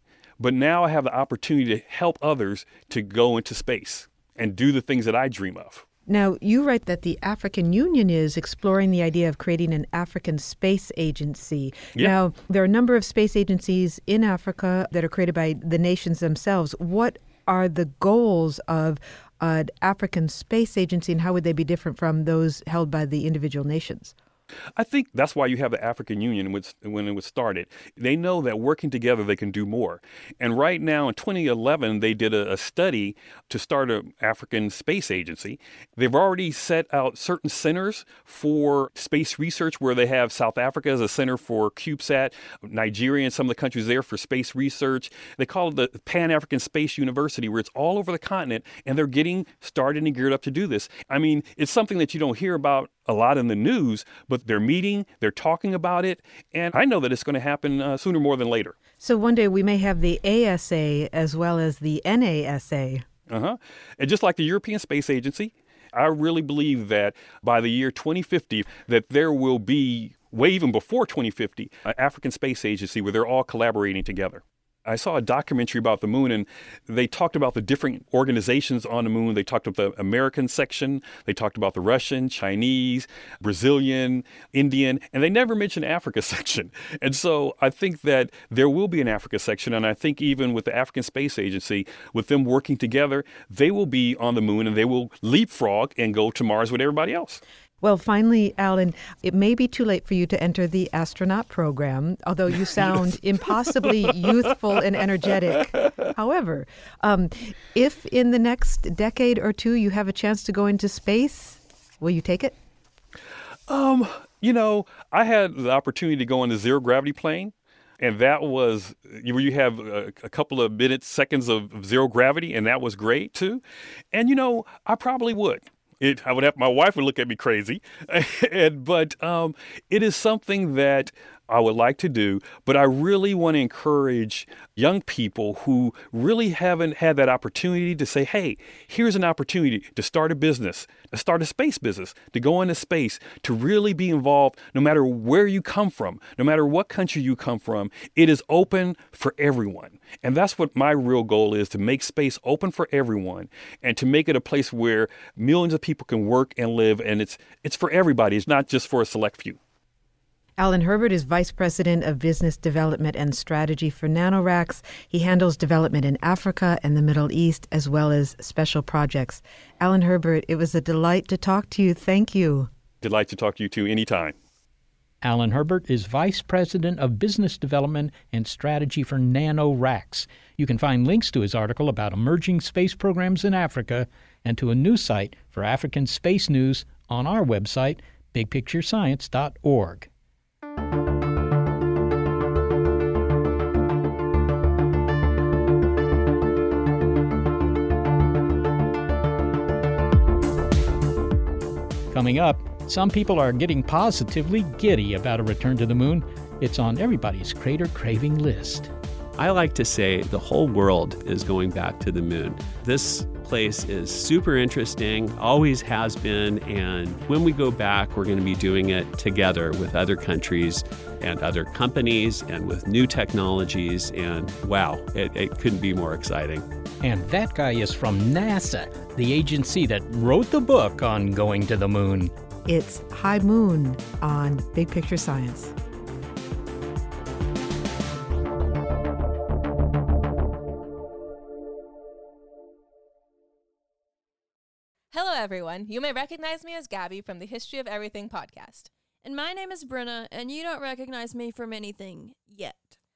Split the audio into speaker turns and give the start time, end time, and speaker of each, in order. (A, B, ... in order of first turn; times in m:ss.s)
0:00.4-0:05.8 A
0:06.1-0:24.1 B
0:24.8-0:58.7 A
0:59.0-1:03.0 B
1:03.3-1:37.4 A
1:37.8-1:52.5 B
1:53.7-2:03.6 A
2:04.1-2:39.6 A
2:40.6-2:52.7 B
2:53.0-2:54.3 A
2:55.2-3:10.1 C
3:22.1-3:28.9 C
3:29.4-3:46.6 D
3:47.0-3:52.3 C
3:52.7-3:55.7 B
4:05.1-4:08.9 E
4:09.2-4:12.9 F